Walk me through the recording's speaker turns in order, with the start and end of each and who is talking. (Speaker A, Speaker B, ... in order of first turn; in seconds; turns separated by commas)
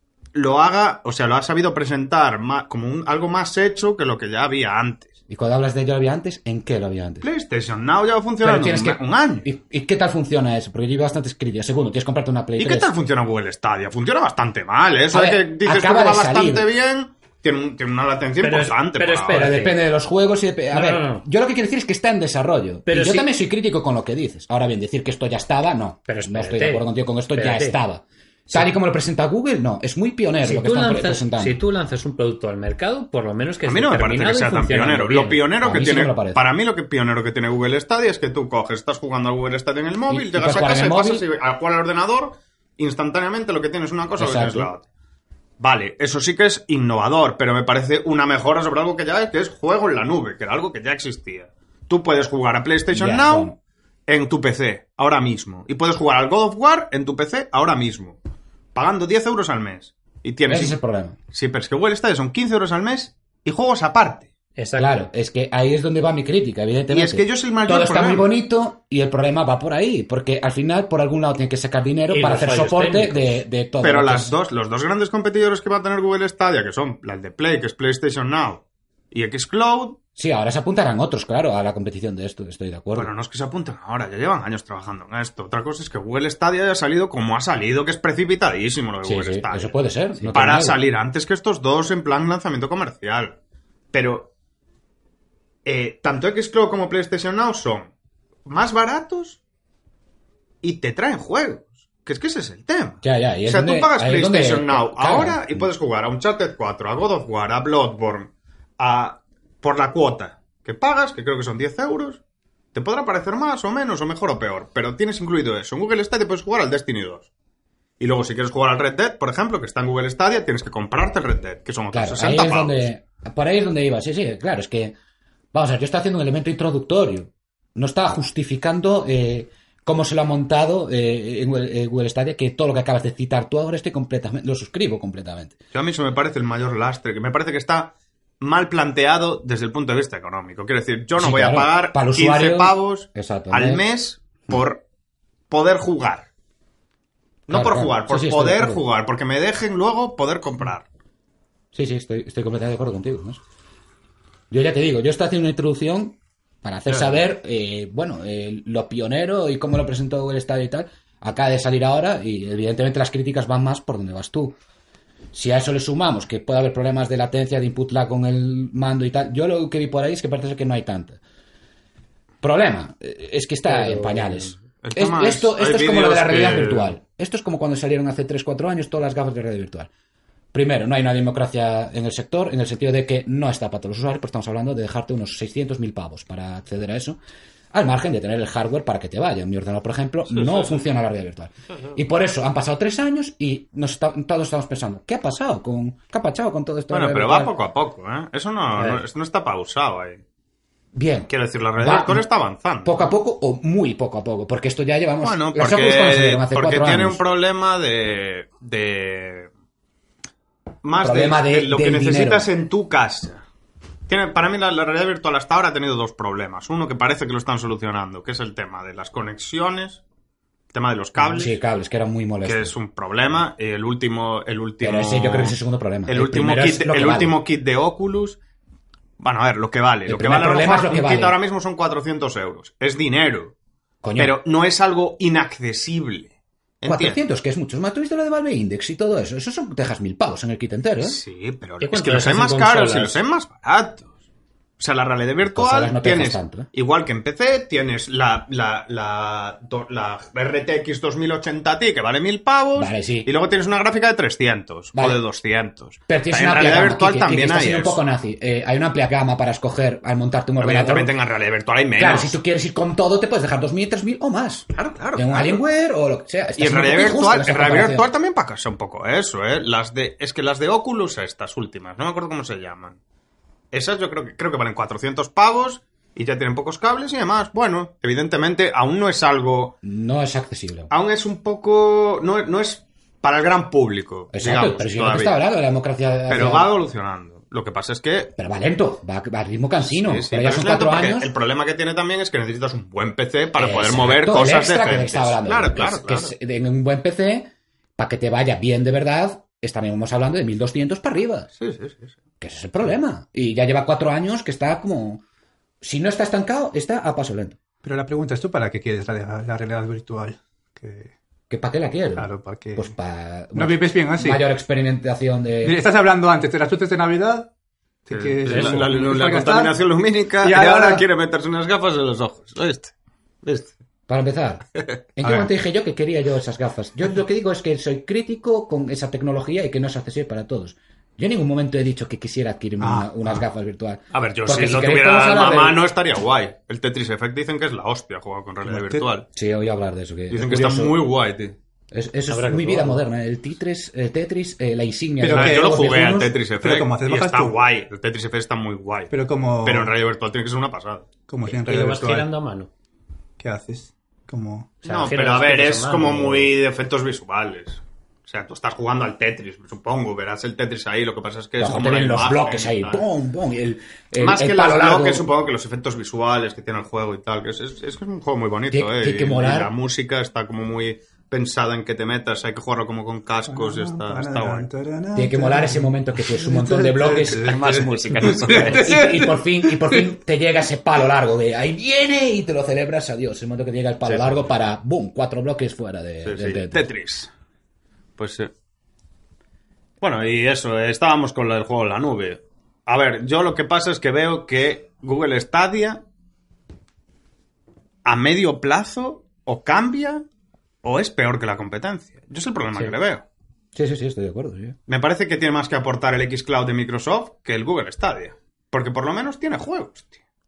Speaker A: 0.3-5.1, Speaker B: 5.3-7.3, Speaker A: 7.2-9.5, Speaker B: 8.4-12.9, Speaker A: 12.6-19.5, Speaker B: 15.1-16.7, Speaker C: 18.4-19.8, Speaker B: 19.3-31.6, Speaker C: 20.7-21.2, Speaker C: 22.9-23.3, Speaker C: 26.1-27.8, Speaker C: 30.4-35.5, Speaker A: 33.7-44.9, Speaker B: 35.6-36.4, Speaker B: 40.1-41.2, Speaker B: 44.2-44.7, Speaker A: 45.6-53.5, Speaker B: 52.9-53.6, Speaker A: 54.1-58.2, Speaker A: 58.8-60.8, Speaker B: 60.5-61.2, Speaker A: 61.3-64.3, Speaker C: 64.6-65.1, Speaker B: 64.8-74.3, Speaker A: 66.9-68.3, Speaker C: 72.1-73.4, Speaker A: 73.8-80.0, Speaker B: 80.2-83.1, Speaker A: 83.0-93.4, Speaker B: 89.0-90.8, Speaker A: 93.9-94.3, Speaker A: 95.7-97.9, Speaker A: 98.5-99.4, Speaker A: 100.6-112.2, Speaker B: 103.0-105.7, Speaker A: 112.7-117.3, Speaker A: 118.0-122.9, Speaker B: 121.9-125.0, Speaker B: 125.5-135.6, Speaker A: 135.7-144.8, Speaker B: 141.2-143.8, Speaker A: 145.5-146.3, Speaker A: 147.5-150.9, Speaker B: 147.5-148.8, Speaker B: 151.7-153.4, Speaker B: 154.5-164.6, Speaker A: 156.9-157.1, Speaker B: 165.3-171.2, Speaker B: 172.4-179.9, Speaker C: 173.7-174.6, Speaker A: 174.8-177.0, Speaker B: 180.5-187.2, Speaker B: 187.7-197.5, Speaker A: 190.3-190.8, Speaker A: 196.9-200.2, Speaker C: 198.8-199.0, Speaker B: 200.9-202.3, Speaker A: 201.3-203.1, Speaker B: 202.8-207.2, Speaker A: 205.2-209.5, Speaker A: 210.8-213.4, Speaker B: 211.0-212.5, Speaker A: 214.1-220.0, Speaker A: 220.7-221.6, Speaker B: 221.2-222.8, Speaker A: 222.4-228.4, Speaker B: 224.8-227.4, Speaker A: 229.2-233.5, Speaker B: 230.1-231.4, Speaker B: 234.0-234.4, Speaker A: 234.2-237.2, Speaker B: 236.8-241.2, Speaker A: 241.0-244.1, Speaker C: 241.8-243.2, Speaker A: 244.8-258.0, Speaker B: 245.5-246.7, Speaker B: 252.8-253.3, Speaker B: 254.9-255.2, Speaker B: 256.1-261.1, Speaker A: 260.6-262.4, Speaker B: 262.0-268.1, Speaker A: 264.7-265.6, Speaker A: 266.6-273.0, Speaker A: 273.7-279.8, Speaker B: 279.8-280.9, Speaker A: 280.9-285.4, Speaker B: 284.3-286.7, Speaker A: 286.3-288.3, Speaker B: 288.4-291.3, Speaker A: 289.8-296.3, Speaker B: 293.6-301.5, Speaker A: 301.6-302.1, Speaker B: 302.4-305.2, Speaker B: 305.8-307.6, Speaker D: 307.8-311.1, Speaker B: 311.5-315.8, Speaker D: 312.2-312.9, Speaker D: 313.6-314.5, Speaker D: 315.6-317.5, Speaker D: 318.1-319.8, Speaker A: 318.1-323.7, Speaker C: 318.5-318.8, Speaker D: 320.4-321.1, Speaker B: 324.1-335.8, Speaker D: 325.2-325.5, Speaker D: 332.8-333.5, Speaker A: 334.1-339.3, Speaker D: 338.6-339.1, Speaker B: 339.3-341.0, Speaker A: 340.3-341.6, Speaker B: 341.9-346.4, Speaker C: 342.3-343.0, Speaker D: 345.2-347.6, Speaker A: 345.3-351.1, Speaker D: 349.1-349.9, Speaker D: 351.3-352.3, Speaker C: 351.6-352.7, Speaker D: 353.4-354.8, Speaker C: 354.8-356.5, Speaker A: 354.9-363.1, Speaker B: 361.6-365.3, Speaker A: 364.2-374.7, Speaker B: 368.7-369.7, Speaker D: 373.5-380.1, Speaker B: 375.1-377.6, Speaker A: 377.3-379.0, Speaker B: 378.5-386.9, Speaker A: 384.0-384.5, Speaker A: 386.2-387.3, Speaker A: 388.2-388.5, Speaker A: 390.0-396.0, Speaker A: 398.1-400.2, Speaker A: 400.8-403.2, Speaker B: 403.8-404.8, Speaker A: 404.9-410.2